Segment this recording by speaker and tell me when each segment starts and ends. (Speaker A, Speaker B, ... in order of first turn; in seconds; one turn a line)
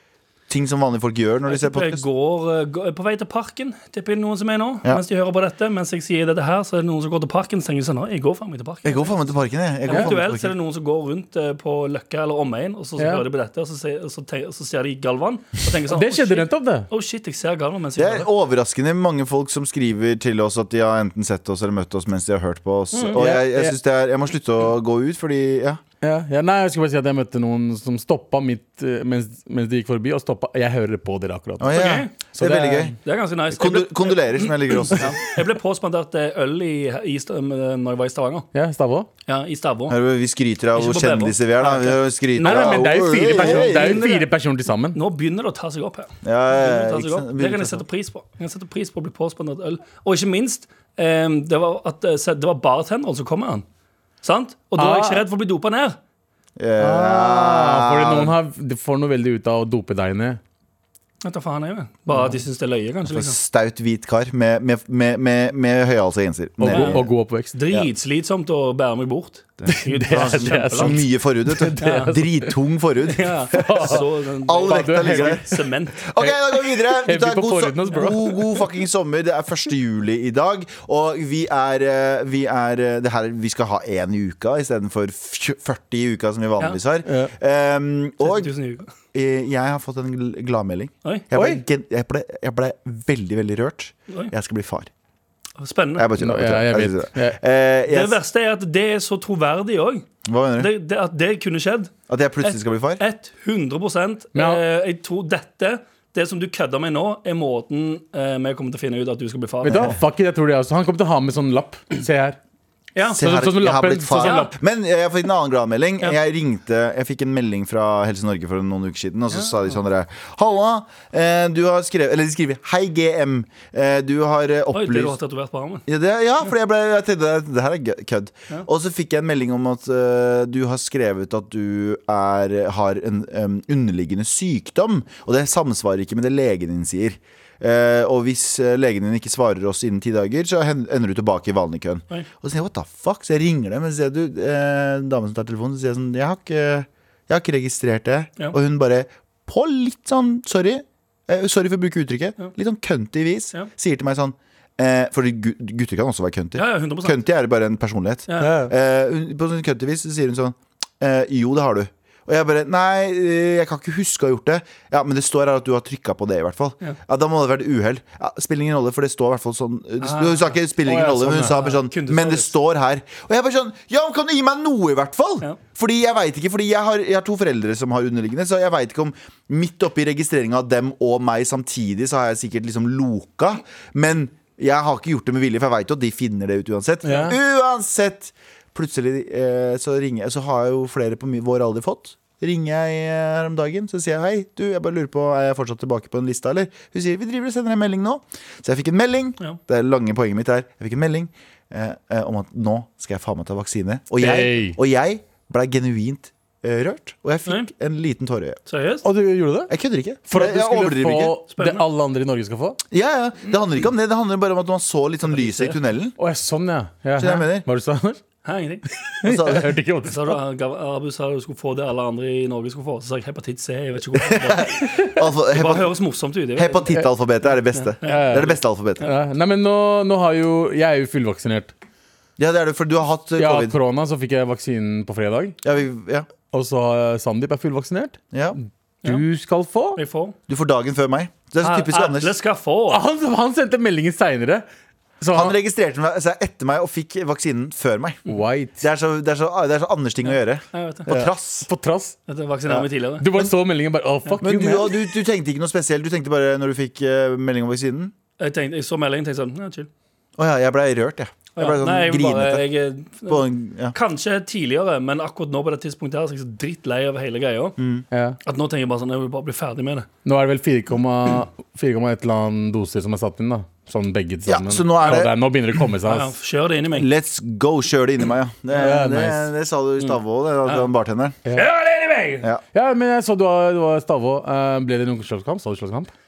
Speaker A: 0.5-2.0
Speaker B: 1.5-9.3
Speaker A: 8.8-10.5
Speaker B: 9.8-18.3
Speaker C: 13.0-13.2
Speaker C: 15.9-16.9
Speaker A: 18.0-25.8
Speaker B: 22.9-23.2
Speaker C: 23.1-23.8
Speaker C: 26.0-33.0
Speaker A: 31.6-33.0
Speaker B: 31.7-32.1
Speaker B: 33.0-38.5
Speaker A: 33.5-35.2
Speaker C: 38.5-39.1
Speaker B: 39.3-40.0
Speaker A: 39.9-44.1
Speaker B: 40.7-44.3
Speaker C: 42.4-45.0
Speaker B: 44.9-53.6
Speaker A: 46.2-47.8
Speaker B: 54.2-56.0
Speaker C: 54.8-55.2
Speaker A: 56.6-58.4
Speaker C: 56.8-60.4
Speaker B: 61.2-63.4
Speaker A: 63.1-67.0
Speaker C: 66.6-67.8
Speaker B: 66.7-71.0
Speaker A: 69.6-75.5
Speaker C: 69.7-72.5
Speaker B: 71.8-72.2
Speaker B: 73.1-76.0
Speaker C: 73.5-74.0
Speaker C: 74.6-78.5
Speaker A: 76.0-88.5
Speaker C: 87.0-87.3
Speaker B: 88.2-88.9
Speaker A: 89.1-94.9
Speaker C: 91.3-91.6
Speaker B: 95.6-96.1
Speaker A: 96.0-98.2
Speaker C: 96.2-97.4
Speaker B: 97.9-109.9
Speaker A: 100.2-100.7
Speaker A: 102.1-103.0
Speaker C: 104.3-104.6
Speaker C: 109.7-112.4
Speaker B: 113.0-113.3
Speaker A: 113.2-125.2
Speaker C: 113.2-114.5
Speaker B: 114.2-114.5
Speaker B: 119.3-119.7
Speaker B: 124.7-125.9
Speaker A: 125.9-208.6
Speaker B: 156.6-157.2
Speaker B: 158.3-158.5
Speaker C: 158.4-158.7
Speaker B: 170.0-172.5
Speaker C: 170.8-171.6
Speaker C: 187.1-187.4
Speaker C: 204.2-204.8
Speaker B: 207.4-207.7
Speaker B: 208.7-209.1
Speaker C: 209.0-209.7
Speaker A: 209.7-211.3
Speaker C: 210.3-212.8
Speaker B: 211.5-211.9
Speaker A: 212.9-216.2
Speaker B: 215.3-215.8
Speaker C: 216.2-218.2
Speaker A: 217.2-217.7
Speaker B: 218.4-218.9
Speaker C: 219.2-220.4
Speaker A: 219.2-219.7
Speaker B: 220.1-226.9
Speaker A: 224.2-225.9
Speaker A: 226.6-229.1
Speaker B: 227.7-228.3
Speaker C: 228.0-231.7
Speaker A: 232.4-233.8
Speaker C: 233.4-235.6
Speaker A: 235.6-236.3
Speaker C: 236.5-238.2
Speaker A: 238.3-238.6
Speaker C: 239.1-240.0
Speaker B: 240.0-240.4
Speaker A: 240.5-242.3
Speaker B: 241.6-243.0
Speaker C: 242.9-244.7
Speaker C: 245.2-245.6
Speaker A: 245.3-251.7
Speaker C: 248.3-248.8
Speaker B: 250.7-251.1
Speaker C: 251.1-252.2
Speaker B: 252.3-253.3
Speaker C: 253.2-254.9
Speaker A: 254.4-258.1
Speaker B: 258.4-259.9
Speaker A: 260.4-262.7
Speaker B: 261.6-267.8
Speaker A: 263.3-263.9
Speaker A: 267.8-268.1
Speaker C: 268.1-268.4
Speaker B: 268.4-270.1
Speaker C: 270.2-276.3
Speaker A: 274.5-275.3
Speaker B: 276.1-277.1
Speaker A: 276.9-281.4
Speaker C: 278.8-279.5
Speaker B: 281.5-282.5
Speaker C: 282.7-286.1